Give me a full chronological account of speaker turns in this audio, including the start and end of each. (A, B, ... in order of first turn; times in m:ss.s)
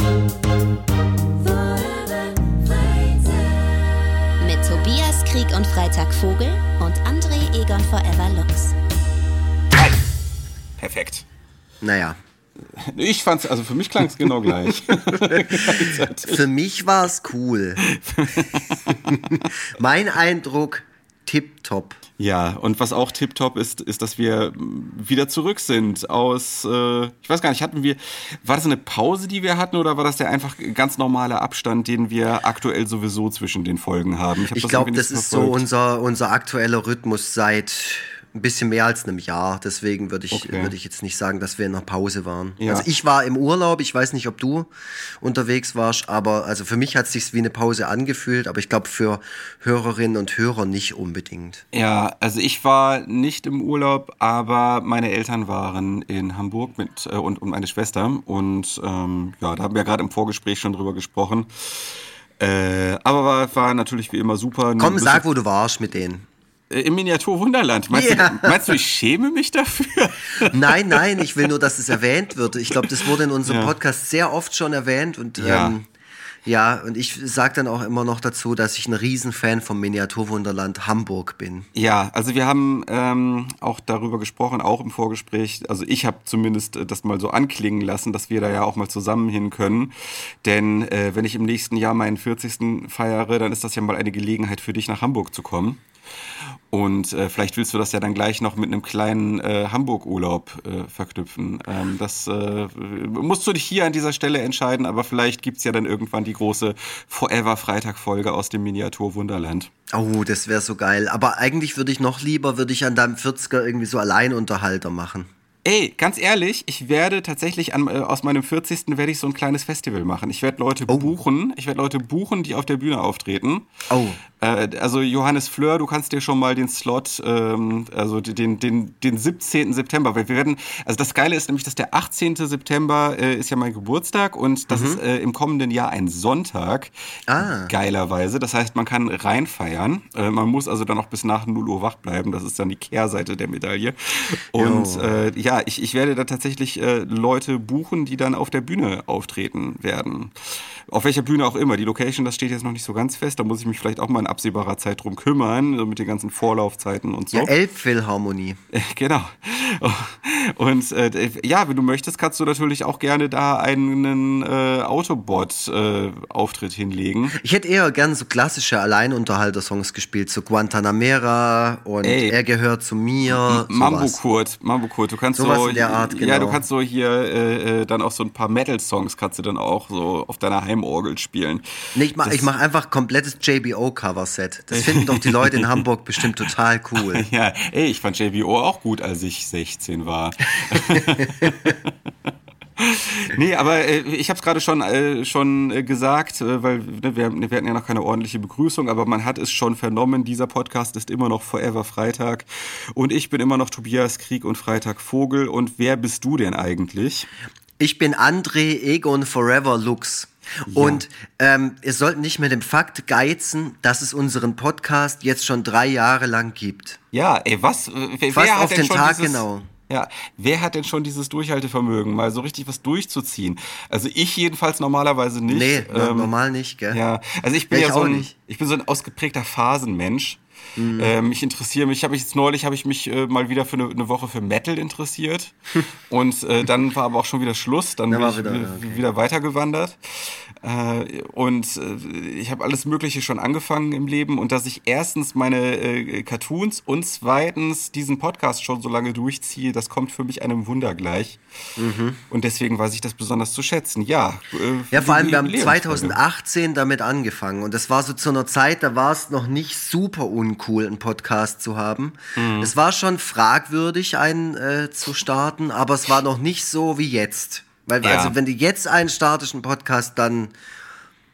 0:01.4-0:08.7 A
0:09.7-0:10.0 B
0:10.8-0:11.2 B
0:11.8-0:12.2 C
0:12.8-0:16.4 B
0:14.9-0:17.8 C
0:17.8-0:19.5 B
0:18.9-0:22.0 C
0:22.2-0:35.6 B
0:34.5-0:51.6 C
0:40.3-0:40.7 B
0:42.6-0:42.8 B
0:51.7-1:05.2 B
1:04.8-1:06.2 C
1:06.7-1:11.1 B
1:07.9-1:08.7 C
1:10.4-1:15.9 C
1:12.8-1:13.7 B
1:15.4-1:15.7 B
1:16.4-1:21.7 C
1:21.7-1:35.8 B
1:36.7-1:49.7 B
1:49.9-1:55.3 C
1:55.6-2:03.7 B
2:03.9-2:04.2 C
2:04.4-2:37.5 B
2:14.7-2:15.0 C
2:17.3-2:17.7 C
2:24.6-2:25.1 C
2:37.3-2:38.6 C
2:38.7-2:47.4 B
2:47.4-2:54.2 C
2:52.0-2:52.4 B
2:53.3-3:01.6 B
2:55.3-2:56.6 C
3:01.9-3:07.2 C
3:02.2-3:02.5 B
3:04.7-3:06.2 B
3:07.0-3:11.9 B
3:10.7-3:11.5 C
3:12.8-3:27.3 B
3:27.8-3:37.0 C
3:30.7-3:31.0 B
3:37.1-3:46.3 B
3:38.3-3:39.7 C
3:45.4-3:47.0 C
3:46.9-3:50.4 B
3:47.7-3:48.3 C
3:50.8-3:51.1 C
3:51.0-3:55.5 B
3:56.1-4:11.4 B
3:58.1-3:59.0 C
4:11.8-4:12.2 C
4:12.3-4:16.2 B
4:14.9-4:30.5 C
4:22.4-4:22.7 B
4:28.0-4:28.4 B